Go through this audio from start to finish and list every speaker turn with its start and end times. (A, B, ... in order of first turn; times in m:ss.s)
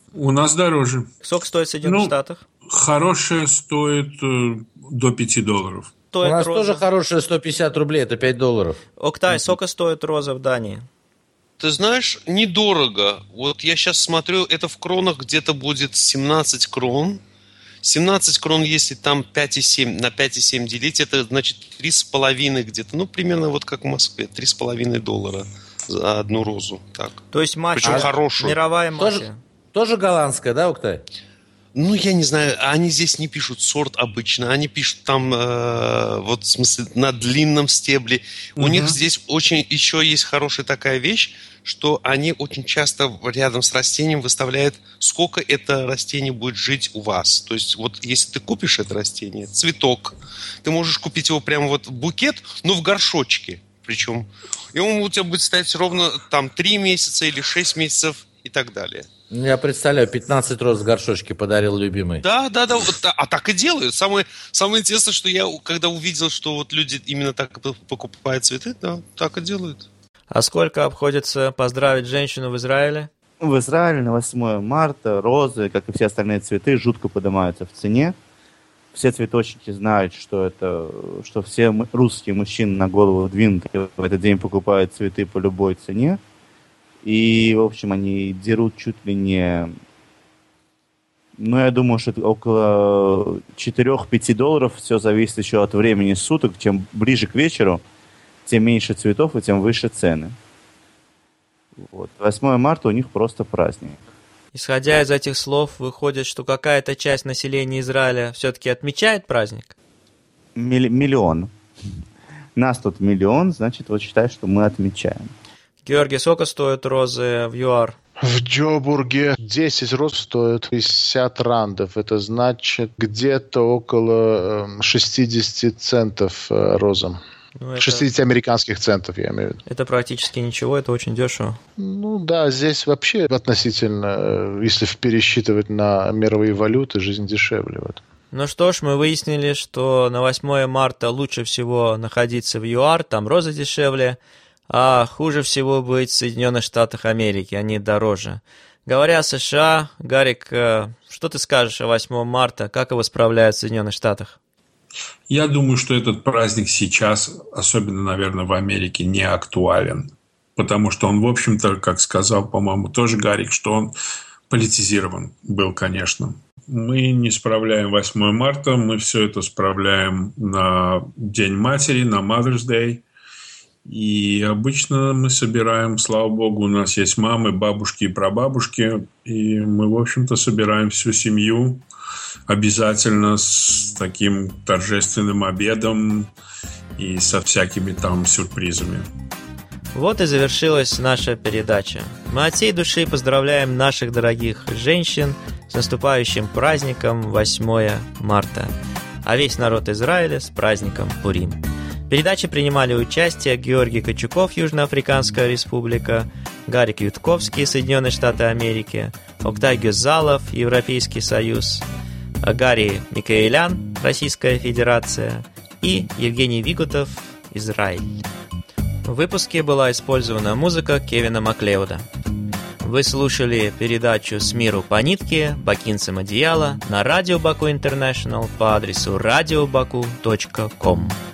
0:00.1-0:01.1 A
0:01.2-0:02.4 B
0:01.8-0:05.9 A
0:06.1-0:06.8 B
0:06.2-0:08.8 C
0:09.0-0:10.9 B
0:11.6-0:17.2 D
0:17.8-0:27.2 D
0:27.3-0:29.4 B
0:27.8-0:28.6 D
0:29.0-0:31.0 C
0:31.8-0:59.1 D
0:38.6-0:38.9 A
0:59.3-1:02.2 C
1:02.2-1:09.9 D
1:10.3-1:13.1 B
1:13.4-1:18.2 E
1:18.9-1:26.2 E
1:27.0-1:29.7 E
1:31.4-1:37.8 E
1:38.5-1:40.4 E
1:41.8-1:44.0 E
1:44.5-1:49.8 B
1:50.6-1:51.5 E
1:52.6-1:55.3 E
1:55.9-1:58.0 B
1:58.2-2:07.2 F
2:07.6-2:08.1 B
2:07.8-2:09.6 F
2:09.7-2:11.6 B
2:11.8-2:18.0 F
2:18.3-2:24.2 B
2:24.7-2:34.4 B
2:35.3-2:44.0 A
2:44.5-2:53.1 A
2:53.8-3:01.8 A
3:02.5-3:06.3 A
3:07.0-3:09.1 A
3:10.0-3:18.7 B
3:19.2-3:31.8 B
3:32.4-3:38.2 B
3:39.0-3:42.1 B
3:42.8-3:51.2 B